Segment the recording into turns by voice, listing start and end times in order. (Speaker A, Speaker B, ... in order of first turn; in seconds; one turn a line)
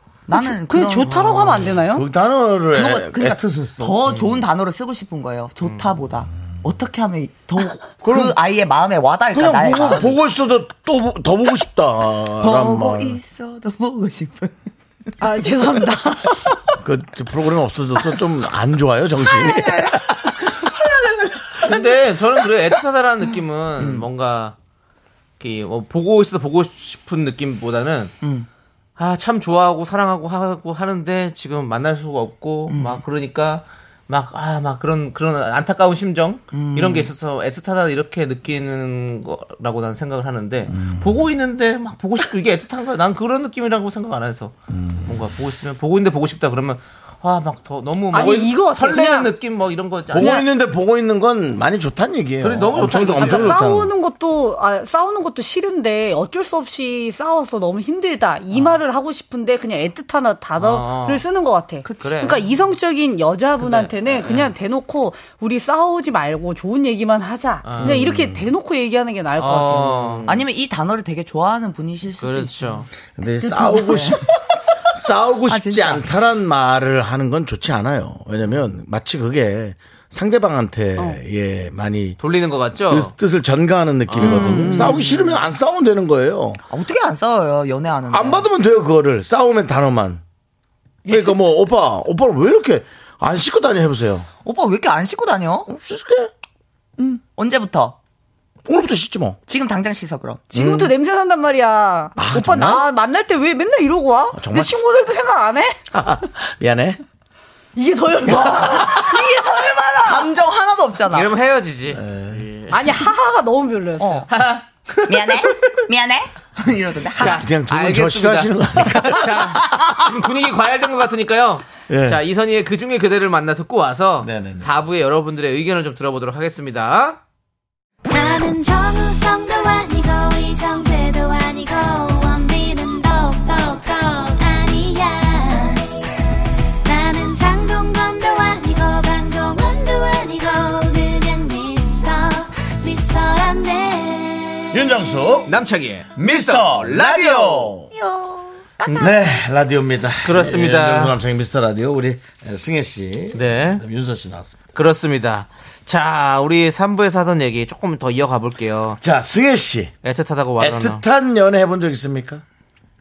Speaker A: 0.3-1.4
Speaker B: 0.3-2.1
Speaker C: 1.1-1.8
Speaker D: 1.8-4.0
Speaker A: 2.7-10.2
Speaker C: 4.0-4.4
Speaker D: 8.0-8.4
Speaker D: 9.3-13.2
Speaker A: 12.4-14.6
Speaker B: 15.2-16.6
Speaker D: 16.8-20.3
Speaker A: 19.2-22.4
Speaker C: 21.6-24.5
Speaker A: 23.8-24.1
Speaker C: 25.4-28.1
Speaker A: 28.2-28.5
Speaker C: 29.0-44.5
Speaker A: 32.7-33.0
Speaker A: 36.5-37.1
Speaker D: 40.7-41.1
Speaker D: 44.7-45.1
Speaker C: 45.0-50.4
Speaker B: 48.1-49.3
Speaker D: 50.1-53.9
Speaker B: 50.2-50.5
Speaker C: 52.4-53.6
Speaker B: 53.1-70.2
Speaker C: 58.5-58.8
Speaker C: 60.6-61.2
Speaker A: 61.8-62.2
Speaker C: 62.0-62.4
Speaker C: 63.6-64.5
Speaker C: 67.6-68.0
Speaker D: 67.8-68.5
Speaker C: 69.4-70.5
Speaker A: 70.2-72.8
Speaker C: 72.2-72.9
Speaker D: 73.2-74.3
Speaker B: 73.4-74.2
Speaker A: 73.6-74.3
Speaker D: 74.9-82.2
Speaker A: 75.5-76.0
Speaker C: 82.2-83.1
Speaker D: 82.9-86.6
Speaker C: 84.1-84.7
Speaker B: 84.2-85.1
Speaker A: 84.3-85.3
Speaker A: 86.7-88.5
Speaker D: 88.1-90.2
Speaker D: 91.0-94.3
Speaker A: 94.4-95.7
Speaker D: 95.7-96.3
Speaker A: 97.4-98.0
Speaker D: 98.7-99.4
Speaker A: 99.5-100.5
Speaker B: 100.5-105.8
Speaker D: 100.5-100.9
Speaker D: 102.2-102.9
Speaker D: 104.3-104.8
Speaker D: 105.9-107.0
Speaker B: 107.8-110.3
Speaker A: 108.2-111.3
Speaker C: 111.1-112.8
Speaker D: 111.9-112.5
Speaker B: 112.7-114.2
Speaker A: 114.0-114.3
Speaker C: 114.3-115.8
Speaker A: 115.1-117.4
Speaker D: 117.2-119.8
Speaker C: 117.2-127.2
Speaker D: 121.9-122.2
Speaker D: 124.2-124.7
Speaker E: 128.1-135.9
Speaker E: 136.8-144.8
Speaker D: 144.7-145.5
Speaker C: 145.5-147.8
Speaker D: 146.1-147.9
Speaker A: 147.9-149.1
Speaker D: 149.0-154.6
Speaker C: 150.2-151.2
Speaker C: 153.3-153.8
Speaker C: 154.7-159.0
Speaker D: 159.0-159.9
Speaker C: 160.0-161.0
Speaker D: 160.6-162.4